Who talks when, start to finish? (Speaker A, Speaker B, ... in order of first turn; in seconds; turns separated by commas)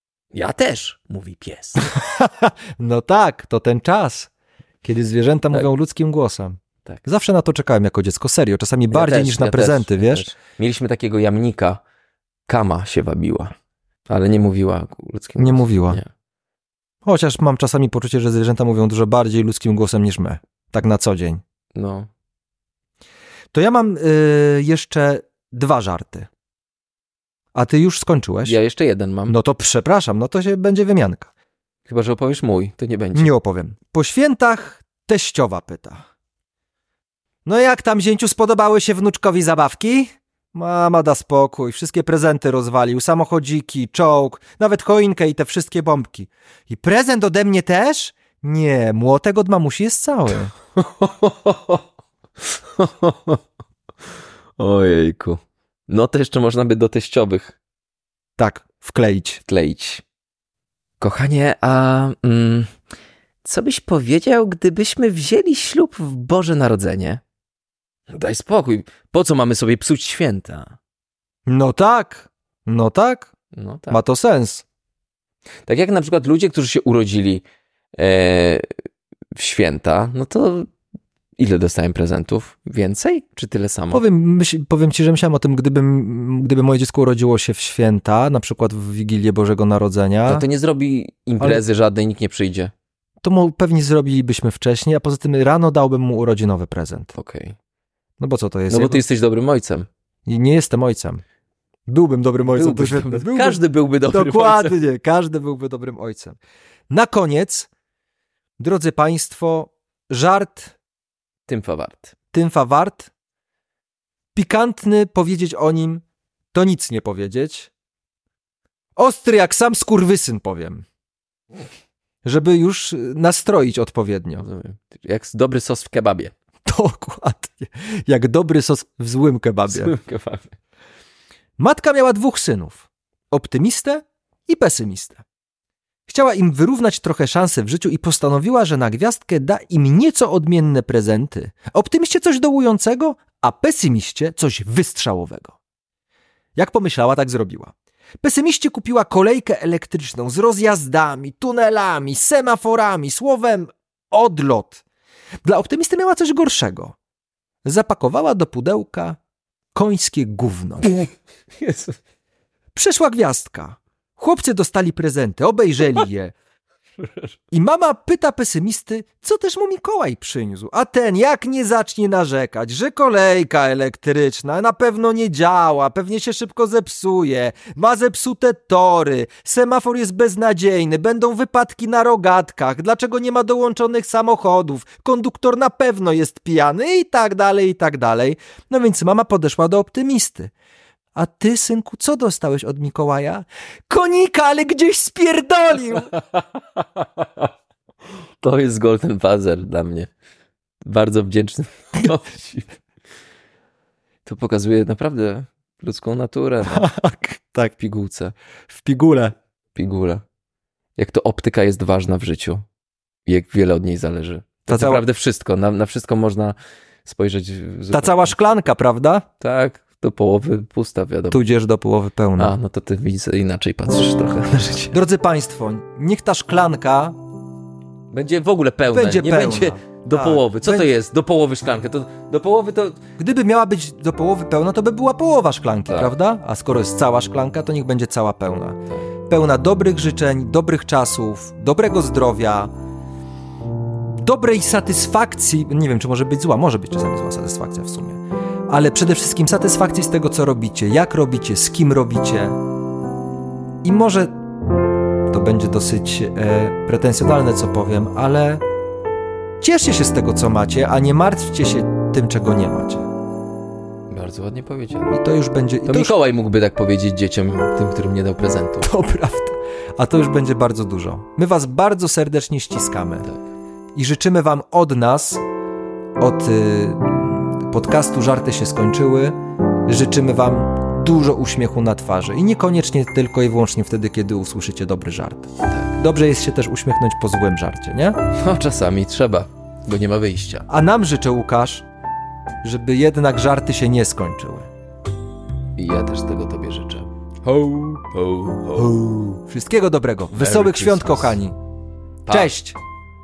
Speaker A: 0.3-1.9, Speaker B: 1.8-4.3, Speaker B: 4.8-10.3, Speaker A: 8.9-11.8, Speaker A: 12.5-13.5, Speaker A: 14.1-16.1, Speaker B: 15.4-16.0, Speaker B: 17.1-21.4, Speaker A: 21.7-22.1, Speaker B: 23.5-26.3, Speaker B: 27.6-28.6, Speaker A: 28.4-29.4, Speaker B: 29.3-31.3, Speaker A: 31.9-33.3, Speaker B: 33.1-36.0, Speaker B: 37.4-50.5, Speaker A: 50.8-51.8, Speaker A: 52.5-53.4, Speaker A: 54.6-57.6, Speaker B: 58.4-59.4, Speaker A: 59.5-60.0, Speaker A: 61.0-62.7, Speaker A: 63.4-67.2, Speaker A: 68.1-70.8, Speaker B: 71.5-73.3, Speaker A: 73.5-74.0, Speaker B: 73.9-74.6, Speaker A: 75.7-77.4, Speaker A: 78.0-78.7, Speaker A: 79.3-80.7, Speaker A: 81.4-84.0, Speaker B: 83.9-90.4, Speaker A: 90.3-92.7, Speaker B: 93.2-97.1, Speaker A: 97.1-97.6, Speaker B: 98.2-99.0, Speaker A: 98.7-99.9, Speaker B: 100.3-101.2, Speaker B: 101.9-106.4, Speaker A: 102.5-104.8, Speaker B: 106.9-107.7, Speaker B: 108.6-110.8, Speaker A: 111.5-112.1, Speaker B: 112.3-113.1, Speaker B: 114.3-117.7, Speaker B: 119.0-120.8, Speaker B: 122.2-124.5, Speaker A: 124.4-126.3, Speaker B: 126.7-129.9, Speaker A: 129.7-130.5, Speaker B: 131.6-135.2, Speaker B: 136.1-145.6, Speaker B: 146.6-154.8, Speaker B: 155.4-156.9, Speaker B: 157.6-159.2, Speaker B: 159.7-160.9, Speaker A: 161.6-161.9, Speaker B: 162.7-166.3, Speaker A: 167.0-167.3, Speaker B: 167.5-190.5, Speaker B: 191.1-196.1, Speaker A: 196.1-197.5, Speaker A: 198.4-200.1, Speaker A: 200.8-202.8, Speaker A: 204.2-206.9, Speaker B: 206.7-207.7, Speaker A: 207.7-208.3, Speaker B: 208.7-209.3, Speaker A: 209.7-210.2, Speaker A: 210.9-212.6, Speaker A: 213.3-218.3, Speaker B: 214.7-215.0, Speaker B: 217.9-219.3, Speaker A: 219.4-221.4, Speaker B: 221.3-222.6, Speaker A: 222.4-225.0, Speaker B: 224.9-227.2, Speaker A: 228.1-233.0, Speaker B: 228.9-230.9, Speaker B: 233.2-242.7, Speaker B: 244.2-252.6, Speaker B: 253.8-254.3, Speaker B: 255.3-258.6, Speaker B: 259.6-263.1, Speaker A: 264.1-265.2, Speaker B: 265.1-266.1, Speaker A: 265.9-268.9, Speaker B: 268.8-273.3, Speaker B: 273.9-275.4, Speaker B: 276.2-288.2, Speaker A: 288.4-290.7, Speaker B: 290.7-291.8, Speaker B: 292.6-294.7, Speaker A: 295.8-298.9, Speaker B: 298.8-301.6, Speaker A: 300.3-301.4, Speaker A: 302.3-302.6, Speaker B: 302.3-302.8